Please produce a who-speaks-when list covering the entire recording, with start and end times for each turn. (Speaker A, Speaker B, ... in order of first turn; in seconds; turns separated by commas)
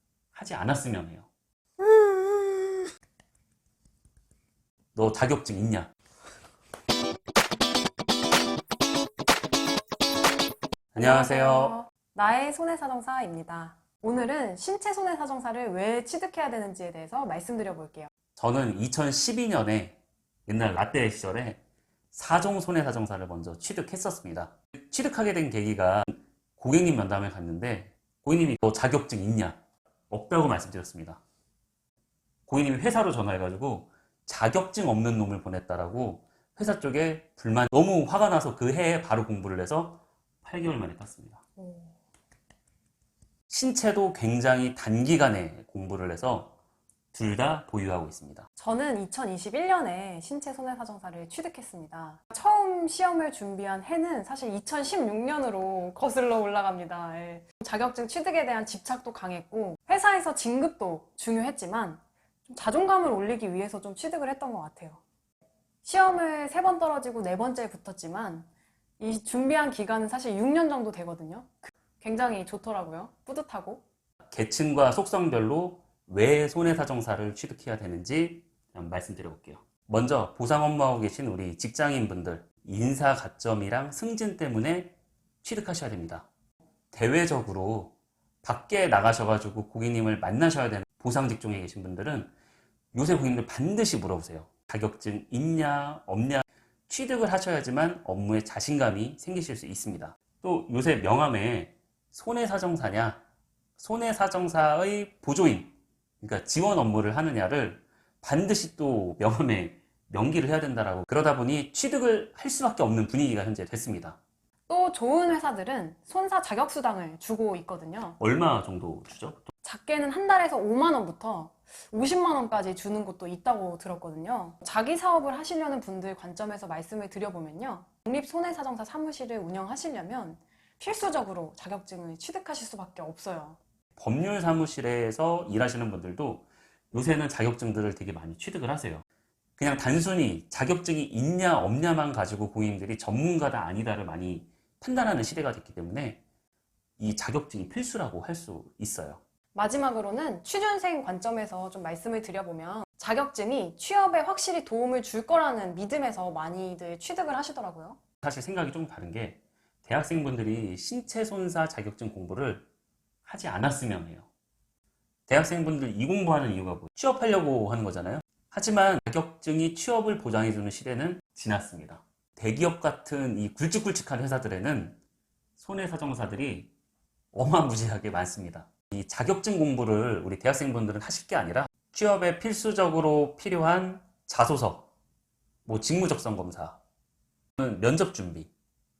Speaker A: 0.3-1.3, Speaker A: 4.9-5.9, Speaker A: 10.9-11.8, Speaker B: 11.0-18.1, Speaker A: 18.4-21.6, Speaker A: 22.1-29.6, Speaker A: 30.1-31.2, Speaker A: 32.5-41.4, Speaker B: 41.6-41.9, Speaker A: 43.5-46.5, Speaker A: 47.1-48.5, Speaker B: 48.6-65.0, Speaker B: 65.8-68.5, Speaker B: 69.0-73.8, Speaker A: 74.3-86.3, Speaker A: 86.9-92.3, Speaker A: 92.9-103.2, Speaker A: 103.8-114.2, Speaker B: 114.7-118.2, Speaker A: 118.2-119.5, Speaker B: 119.6-133.6, Speaker A: 133.9-139.0, Speaker A: 139.6-146.2, Speaker A: 147.0-149.2, Speaker B: 149.5-158.0, Speaker A: 158.2-162.7, Speaker A: 163.2-164.3, Speaker A: 165.3-175.0, Speaker A: 175.6-176.7, Speaker A: 177.3-184.9, Speaker A: 185.6-186.8, Speaker A: 187.6-188.5